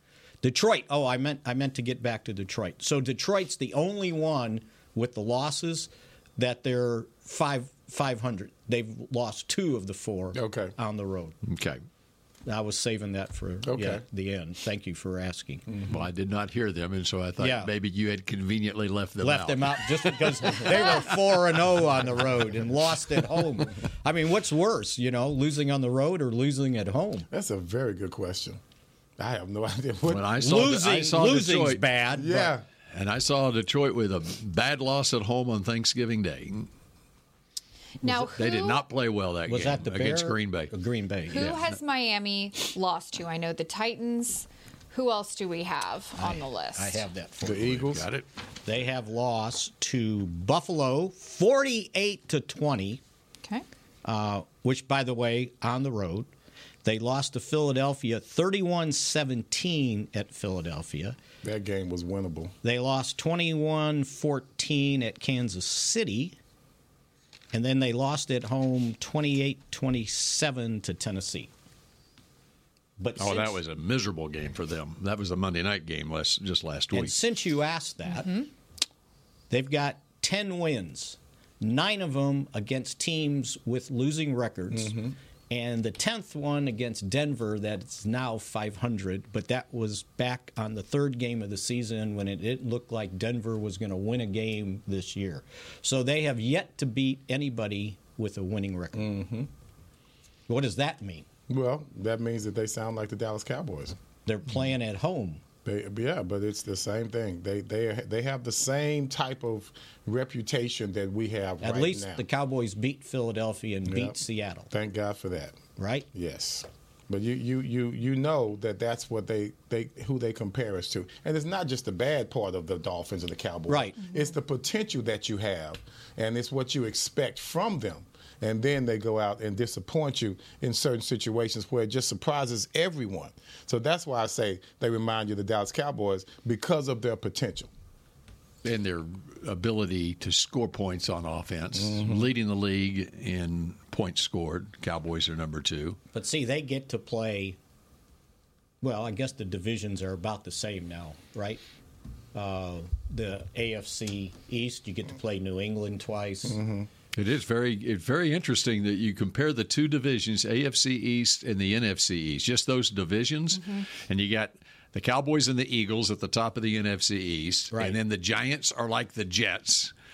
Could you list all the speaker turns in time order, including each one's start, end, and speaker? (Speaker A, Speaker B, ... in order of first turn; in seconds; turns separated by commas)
Speaker A: 0.4-11.4, Speaker B: 10.3-10.7, Speaker C: 11.4-11.8, Speaker A: 12.4-15.7, Speaker B: 13.7-14.0, Speaker C: 15.8-21.1, Speaker A: 17.4-17.7, Speaker A: 19.2-27.3, Speaker B: 27.3-28.6, Speaker B: 29.2-30.4, Speaker C: 30.1-31.8, Speaker A: 30.4-32.5, Speaker B: 32.1-32.6, Speaker C: 32.9-36.7, Speaker D: 38.0-38.8, Speaker C: 38.0-40.7, Speaker A: 39.5-41.6, Speaker D: 41.3-47.0, Speaker C: 41.3-41.8, Speaker A: 46.1-47.9, Speaker B: 47.4-48.0, Speaker C: 47.7-48.2, Speaker A: 48.6-53.0, Speaker A: 54.0-56.3, Speaker A: 56.8-61.2, Speaker B: 61.4-62.5, Speaker A: 62.6-66.4, Speaker A: 67.5-71.5, Speaker A: 73.0-73.6, Speaker C: 73.2-77.2, Speaker A: 76.9-78.4, Speaker D: 78.1-78.5, Speaker A: 79.5-85.0, Speaker B: 84.7-85.1, Speaker A: 85.5-99.2, Speaker B: 98.9-99.5, Speaker A: 100.5-101.2, Speaker B: 101.5-104.0, Speaker A: 104.2-105.4, Speaker B: 105.6-112.2, Speaker A: 111.6-114.7, Speaker B: 113.8-114.2, Speaker B: 114.7-115.6, Speaker A: 115.8-116.1, Speaker B: 116.1-137.7, Speaker A: 123.7-124.0, Speaker C: 138.6-146.0, Speaker B: 141.8-142.3, Speaker A: 146.1-147.6, Speaker A: 148.8-151.6, Speaker A: 152.3-156.6, Speaker B: 156.4-156.9, Speaker C: 157.1-169.9, Speaker D: 163.5-163.8, Speaker A: 167.7-168.0